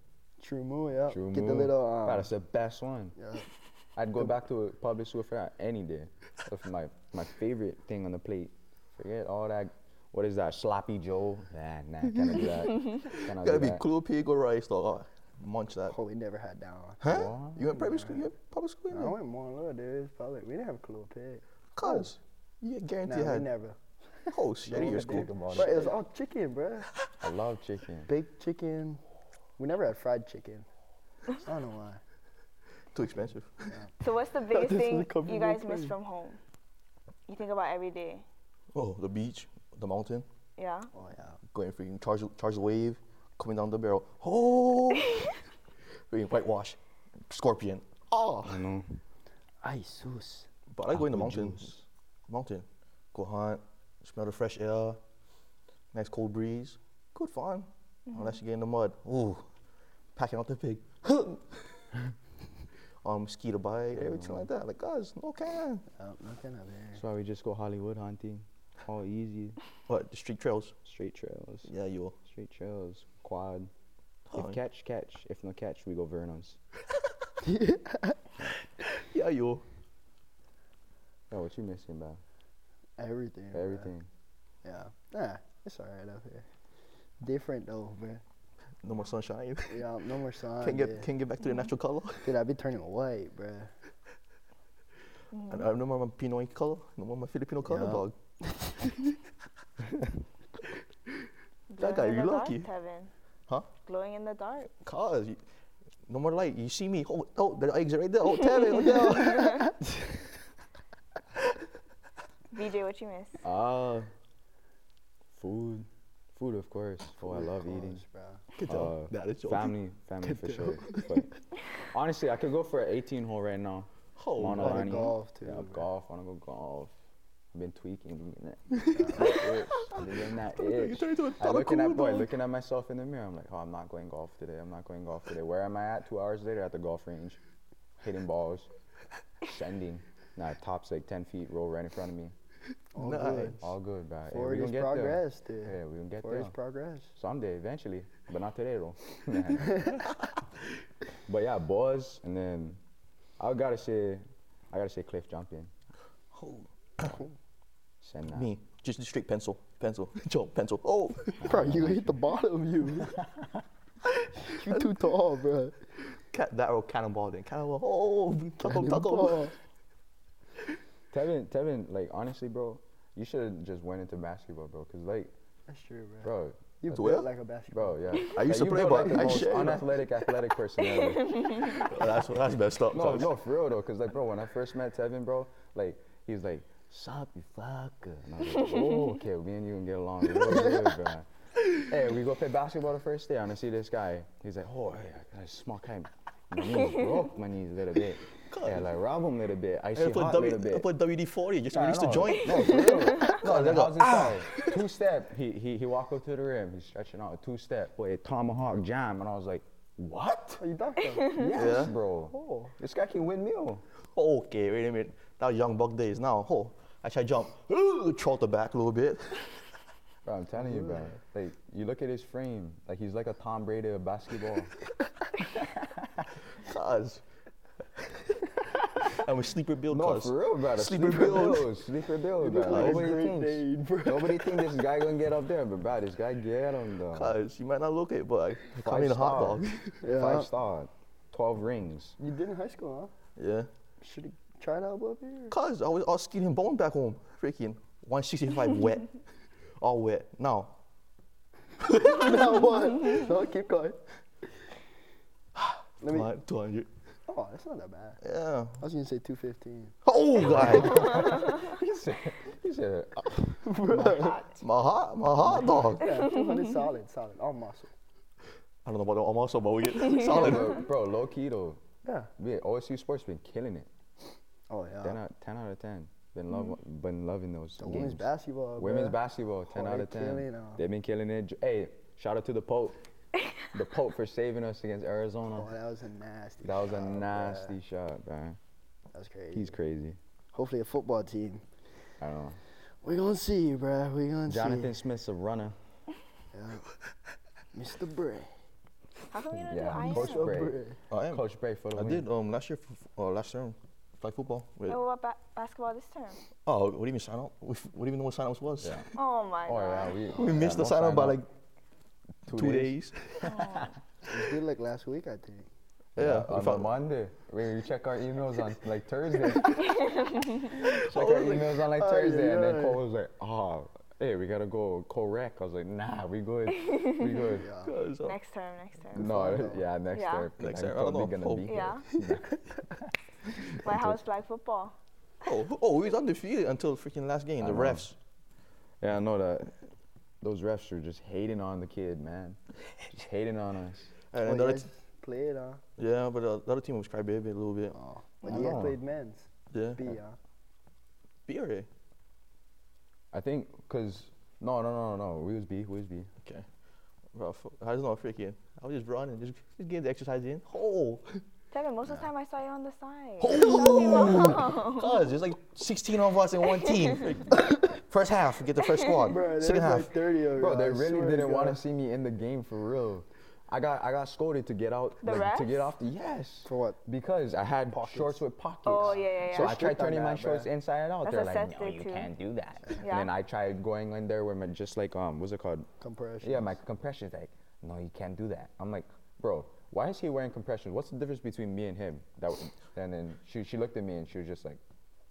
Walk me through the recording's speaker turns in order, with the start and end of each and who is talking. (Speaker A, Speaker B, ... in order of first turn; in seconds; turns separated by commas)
Speaker A: 0.4-2.3, Speaker B: 1.1-3.1, Speaker A: 3.2-3.5, Speaker B: 4.0-13.8, Speaker C: 12.7-16.0, Speaker A: 15.9-17.0, Speaker C: 17.0-19.1, Speaker B: 17.1-17.7, Speaker A: 17.7-18.2, Speaker A: 18.9-22.1, Speaker C: 21.7-23.5, Speaker A: 23.1-26.9, Speaker C: 24.3-25.9, Speaker B: 24.7-25.9, Speaker B: 27.2-28.1, Speaker A: 28.1-29.0, Speaker A: 29.6-30.7, Speaker A: 31.3-32.0, Speaker C: 32.9-33.8, Speaker D: 34.0-36.4, Speaker A: 34.5-36.0, Speaker D: 37.3-38.2, Speaker C: 38.7-40.2, Speaker D: 40.6-40.9, Speaker A: 40.9-41.4, Speaker C: 41.5-45.3, Speaker C: 46.1-48.6, Speaker B: 48.4-49.0, Speaker A: 49.6-50.5, Speaker C: 50.7-51.7, Speaker B: 50.9-51.8, Speaker C: 52.3-55.0, Speaker C: 55.9-59.5, Speaker D: 58.1-58.4, Speaker C: 60.1-61.9, Speaker C: 63.0-65.8, Speaker B: 63.9-64.5, Speaker A: 66.0-67.0, Speaker B: 66.9-69.6, Speaker C: 69.9-70.7, Speaker B: 70.8-71.7, Speaker C: 71.7-72.2, Speaker B: 72.2-73.7, Speaker C: 74.3-74.6, Speaker B: 74.3-76.6, Speaker A: 77.4-78.2, Speaker C: 79.0-79.6, Speaker B: 81.3-82.2, Speaker A: 83.0-83.9, Speaker B: 83.5-84.1, Speaker A: 84.6-86.5, Speaker A: 87.2-88.2, Speaker C: 88.8-89.9, Speaker A: 89.7-91.1, Speaker C: 90.6-92.3, Speaker D: 91.4-91.7, Speaker A: 92.2-93.7, Speaker D: 95.3-95.7, Speaker C: 95.5-98.1, Speaker A: 97.7-99.0, Speaker D: 101.7-103.1, Speaker C: 101.8-102.7, Speaker D: 103.8-104.7, Speaker C: 104.8-105.4, Speaker C: 106.1-109.8, Speaker A: 109.4-110.1, Speaker D: 112.5-113.4, Speaker B: 113.4-114.1, Speaker B: 115.3-118.0, Speaker A: 117.2-118.5, Speaker C: 118.5-119.7, Speaker B: 118.7-126.9, Speaker A: 120.2-121.2, Speaker C: 124.2-125.0, Speaker A: 124.5-125.9, Speaker B: 127.5-137.4, Speaker A: 128.8-129.4, Speaker C: 129.1-132.3, Speaker B: 138.0-138.7, Speaker B: 139.4-142.3, Speaker A: 142.9-143.6, Speaker C: 143.0-143.7, Speaker B: 143.6-146.5, Speaker A: 144.3-147.1, Speaker B: 147.2-150.0, Speaker B: 151.3-152.8, Speaker B: 153.4-155.7, Speaker C: 156.3-157.2, Speaker B: 158.0-158.5, Speaker C: 158.3-161.5, Speaker B: 161.4-162.2, Speaker A: 161.4-163.2, Speaker B: 163.0-163.6, Speaker A: 164.4-165.8, Speaker C: 164.7-165.1, Speaker C: 166.3-169.5, Speaker A: 168.6-169.5, Speaker B: 171.1-175.3, Speaker A: 175.7-178.2, Speaker B: 176.2-176.6, Speaker C: 176.9-177.3, Speaker B: 177.7-181.7, Speaker C: 178.2-180.0, Speaker D: 180.9-181.9, Speaker C: 181.7-183.3, Speaker B: 182.9-200.9, Speaker C: 198.5-198.8, Speaker C: 199.9-204.8, Speaker B: 201.7-210.6, Speaker D: 202.6-203.3, Speaker A: 210.6-211.4, Speaker D: 211.2-211.5, Speaker B: 211.3-213.8, Speaker C: 211.5-211.9, Speaker A: 212.3-212.7, Speaker C: 214.1-219.5, Speaker B: 220.2-224.7, Speaker A: 220.6-221.2, Speaker B: 225.4-226.3, Speaker C: 226.6-227.2, Speaker C: 229.0-231.7, Speaker B: 229.9-237.3, Speaker A: 232.4-234.7, Speaker C: 232.6-233.2, Speaker C: 237.1-240.0, Speaker B: 238.8-242.2, Speaker A: 240.0-240.5, Speaker A: 242.2-243.1, Speaker C: 243.4-243.7, Speaker A: 244.0-245.5, Speaker C: 245.5-249.2, Speaker C: 249.8-250.8, Speaker C: 251.8-252.6, Speaker A: 251.9-254.0, Speaker C: 255.6-256.9, Speaker A: 256.0-256.3, Speaker A: 257.3-258.2, Speaker C: 258.2-258.8, Speaker A: 258.8-259.9, Speaker C: 260.0-261.5, Speaker B: 260.4-264.4, Speaker A: 263.6-264.5, Speaker C: 264.6-266.2, Speaker A: 265.9-267.9, Speaker C: 268.8-270.9, Speaker B: 270.2-271.8, Speaker A: 272.0-272.3, Speaker B: 272.4-273.9, Speaker A: 274.7-275.2, Speaker B: 275.0-278.2, Speaker A: 277.8-280.8, Speaker B: 278.8-283.0, Speaker B: 283.7-285.7, Speaker A: 285.5-287.8, Speaker B: 286.6-288.6, Speaker A: 289.1-289.8, Speaker B: 289.5-290.2, Speaker A: 290.5-291.6, Speaker B: 292.2-292.6, Speaker A: 293.0-295.0, Speaker B: 294.5-295.8, Speaker A: 296.5-296.9, Speaker A: 297.7-298.5, Speaker D: 299.3-300.6, Speaker B: 299.7-300.8, Speaker A: 299.9-301.0, Speaker C: 301.1-301.4, Speaker B: 301.3-302.2, Speaker C: 301.9-305.0, Speaker D: 304.9-306.4, Speaker C: 306.6-309.0, Speaker B: 308.8-309.1, Speaker D: 309.1-310.2, Speaker B: 309.6-311.4, Speaker C: 310.3-311.5, Speaker B: 312.4-313.9, Speaker C: 312.5-313.5, Speaker D: 313.4-313.9, Speaker A: 314.2-315.7, Speaker C: 316.1-316.9, Speaker B: 316.1-320.0, Speaker D: 319.6-320.8, Speaker C: 320.8-321.7, Speaker B: 320.8-327.7, Speaker A: 321.9-323.0, Speaker D: 326.7-327.4, Speaker A: 327.5-327.9, Speaker C: 327.8-328.4, Speaker D: 328.2-329.2, Speaker B: 329.1-333.1, Speaker A: 329.1-329.8, Speaker D: 330.1-330.5, Speaker C: 330.6-331.9, Speaker D: 331.6-332.1, Speaker B: 333.7-334.2, Speaker D: 333.8-334.9, Speaker C: 335.4-338.2, Speaker B: 337.6-338.1, Speaker B: 339.0-339.8, Speaker B: 340.4-344.1, Speaker C: 344.3-344.9, Speaker A: 344.4-345.8, Speaker C: 346.0-347.9, Speaker A: 347.9-350.4, Speaker B: 348.4-349.0, Speaker C: 349.7-350.1, Speaker C: 351.5-351.9, Speaker B: 353.3-356.3, Speaker C: 357.3-361.4, Speaker D: 361.7-365.2, Speaker C: 363.4-370.1, Speaker D: 366.8-367.2, Speaker D: 368.9-369.2, Speaker A: 369.2-371.8, Speaker B: 370.6-385.9, Speaker D: 375.2-375.9, Speaker A: 376.6-377.0, Speaker A: 377.9-378.4, Speaker D: 378.8-379.8, Speaker A: 378.9-380.7, Speaker D: 381.2-382.3, Speaker D: 383.0-383.3, Speaker A: 386.0-386.8, Speaker B: 386.4-394.8